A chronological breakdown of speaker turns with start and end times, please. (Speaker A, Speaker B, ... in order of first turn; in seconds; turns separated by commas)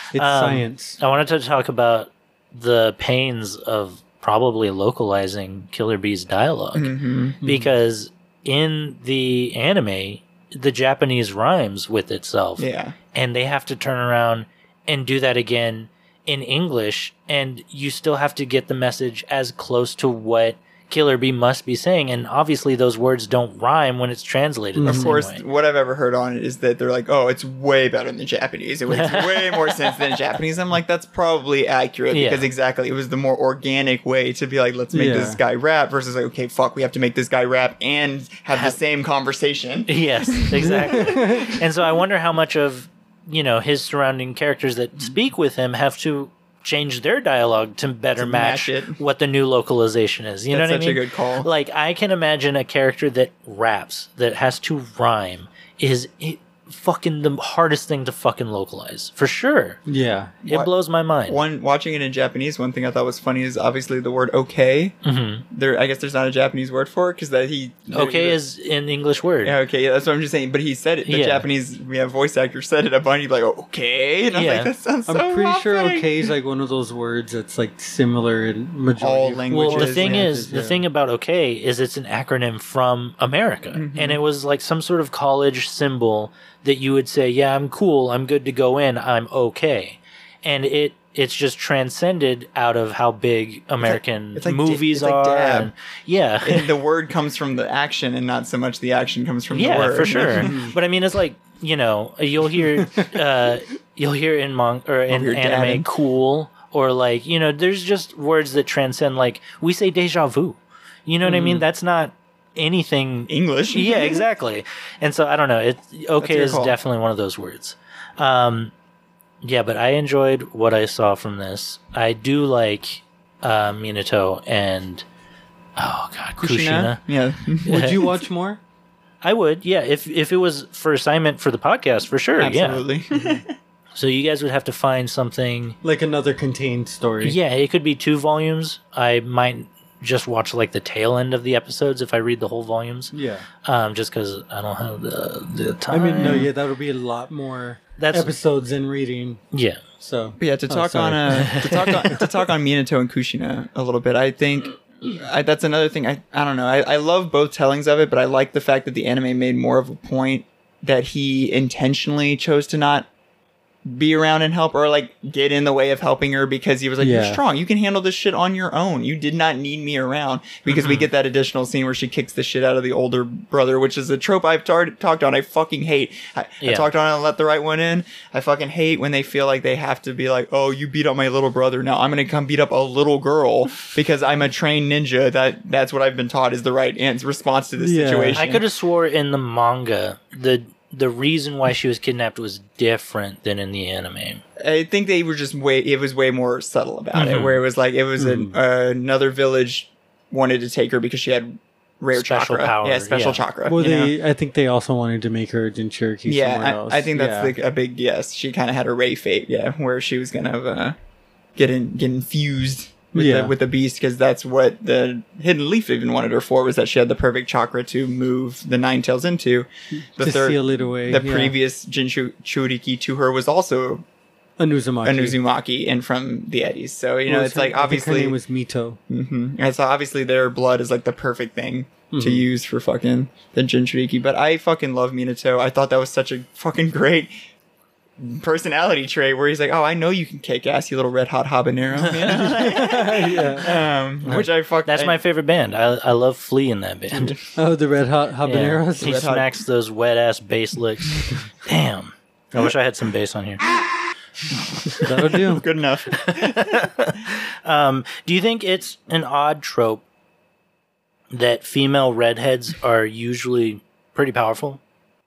Speaker A: 0.1-1.0, Speaker B: 0.1-25.4, Speaker C: 6.7-7.4, Speaker A: 7.4-7.7, Speaker C: 12.6-12.9, Speaker A: 24.8-25.2, Speaker C: 24.8-41.5, Speaker B: 28.9-29.6, Speaker B: 32.1-32.5, Speaker A: 34.9-35.4, Speaker B: 39.9-59.8, Speaker A: 40.8-41.5, Speaker C: 48.2-49.0, Speaker C: 50.5-51.5, Speaker A: 59.9-60.4, Speaker B: 60.5-61.4, Speaker C: 61.2-64.9, Speaker B: 65.0-65.4, Speaker C: 65.5-68.4, Speaker B: 67.9-69.6, Speaker C: 69.4-76.2, Speaker B: 71.1-71.4, Speaker B: 74.3-74.7, Speaker A: 75.1-80.8, Speaker C: 79.0-80.3, Speaker B: 79.7-96.7, Speaker C: 83.7-84.2, Speaker C: 93.8-95.7, Speaker C: 96.4-100.5, Speaker B: 99.5-118.7, Speaker A: 100.3-100.7, Speaker A: 102.8-103.1, Speaker C: 105.1-105.9, Speaker A: 111.2-111.6, Speaker C: 113.3-114.2, Speaker C: 116.2-116.8, Speaker B: 119.4-125.0, Speaker B: 125.8-127.0, Speaker C: 126.4-128.0, Speaker A: 127.6-128.6, Speaker B: 127.7-128.1, Speaker B: 129.2-132.8, Speaker C: 132.4-133.5, Speaker A: 133.2-133.4, Speaker B: 133.9-135.8, Speaker A: 135.8-137.3, Speaker B: 137.2-143.1, Speaker A: 143.1-143.4, Speaker B: 143.6-146.5, Speaker A: 145.9-149.4, Speaker C: 146.2-146.5, Speaker B: 148.0-148.3, Speaker B: 149.5-149.9, Speaker A: 150.0-151.6, Speaker C: 150.4-163.1, Speaker B: 151.3-152.1, Speaker C: 163.8-188.6, Speaker A: 167.0-167.4, Speaker B: 170.7-171.1, Speaker B: 176.6-176.9, Speaker A: 187.8-188.4, Speaker B: 188.3-194.4, Speaker C: 194.6-204.1, Speaker B: 197.1-197.6, Speaker A: 198.2-198.6, Speaker B: 202.1-203.4, Speaker A: 203.7-207.5, Speaker C: 206.2-210.9, Speaker C: 211.6-224.0, Speaker A: 213.1-213.5, Speaker A: 219.9-221.5, Speaker A: 224.6-225.4, Speaker C: 225.0-228.4, Speaker A: 227.3-229.0, Speaker C: 229.1-237.3, Speaker A: 232.1-232.5, Speaker C: 238.2-245.2, Speaker A: 242.0-243.7, Speaker B: 244.9-247.4, Speaker C: 247.1-247.4, Speaker A: 247.6-249.3, Speaker B: 248.4-253.6, Speaker C: 249.0-249.5, Speaker A: 255.0-255.6, Speaker C: 255.0-256.9, Speaker B: 256.1-260.0, Speaker B: 261.3-264.8